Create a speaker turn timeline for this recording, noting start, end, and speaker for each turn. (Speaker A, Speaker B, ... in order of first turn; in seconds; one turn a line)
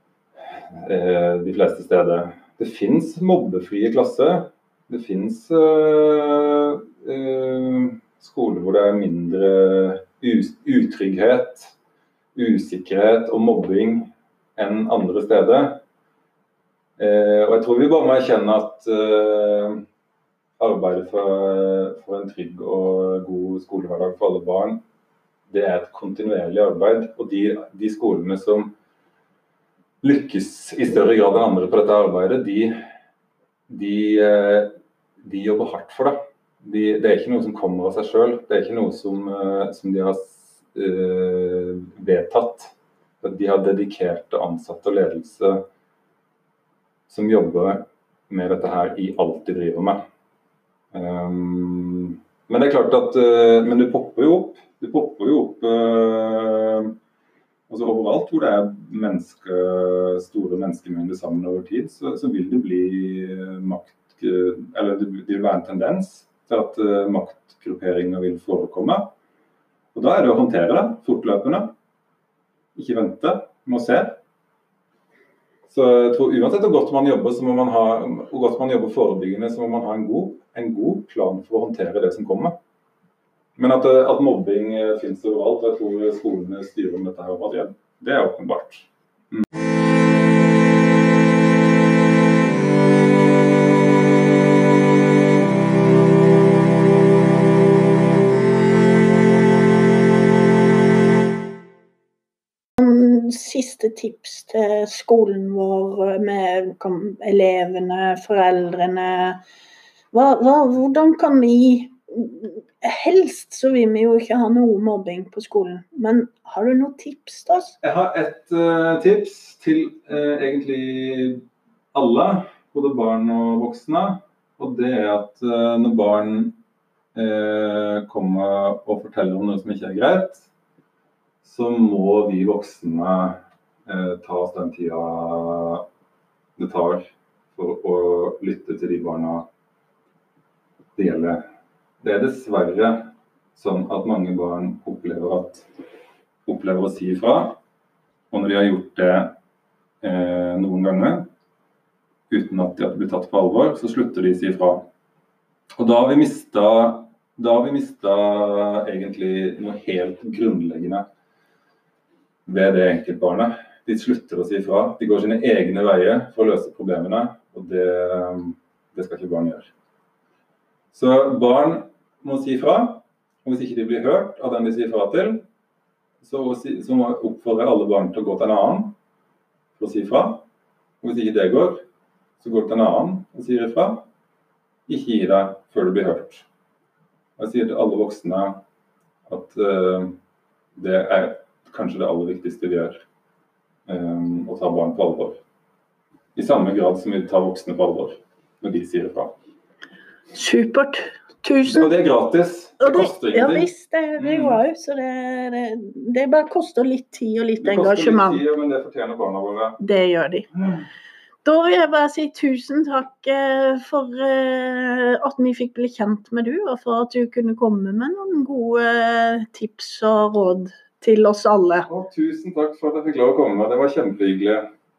Speaker A: 0.7-11.7
Speaker A: 12.3-15.8
Speaker A: 17.0-19.8
Speaker A: 20.6-24.8
Speaker A: 25.5-28.7
Speaker A: 30.0-32.8
Speaker A: 33.7-45.6
Speaker A: 47.1-50.0
Speaker A: 50.9-56.9
Speaker A: 57.7-69.1
Speaker A: 69.9-71.7
Speaker A: 72.7-74.2
Speaker A: 75.7-82.6
Speaker A: 83.5-89.4
Speaker B: 102.8-109.4
Speaker B: 110.1-117.8
Speaker A: 117.8-126.5
Speaker A: 127.1-130.4
Speaker A: 131.4-135.8
Speaker A: 136.6-139.5
Speaker A: 140.9-141.4
Speaker A: 142.0-145.7
Speaker A: 146.4-147.6
Speaker A: 148.3-149.3
Speaker A: 150.0-151.3
Speaker A: 152.3-154.9
Speaker A: 155.8-161.1
Speaker A: 162.4-169.7
Speaker A: 170.9-175.4
Speaker A: 176.2-178.9
Speaker A: 179.8-180.4
Speaker A: 181.0-181.8
Speaker A: 182.4-184.1
Speaker A: 184.9-186.4
Speaker A: 187.4-188.6
Speaker A: 189.3-190.2
Speaker A: 190.8-193.0
Speaker A: 193.8-195.4
Speaker A: 196.3-199.3
Speaker B: 200.3-201.9
Speaker A: 201.7-204.6
Speaker B: 202.8-208.4
Speaker A: 207.6-209.8
Speaker B: 209.8-210.5
Speaker B: 211.4-221.9
Speaker A: 221.9-224.7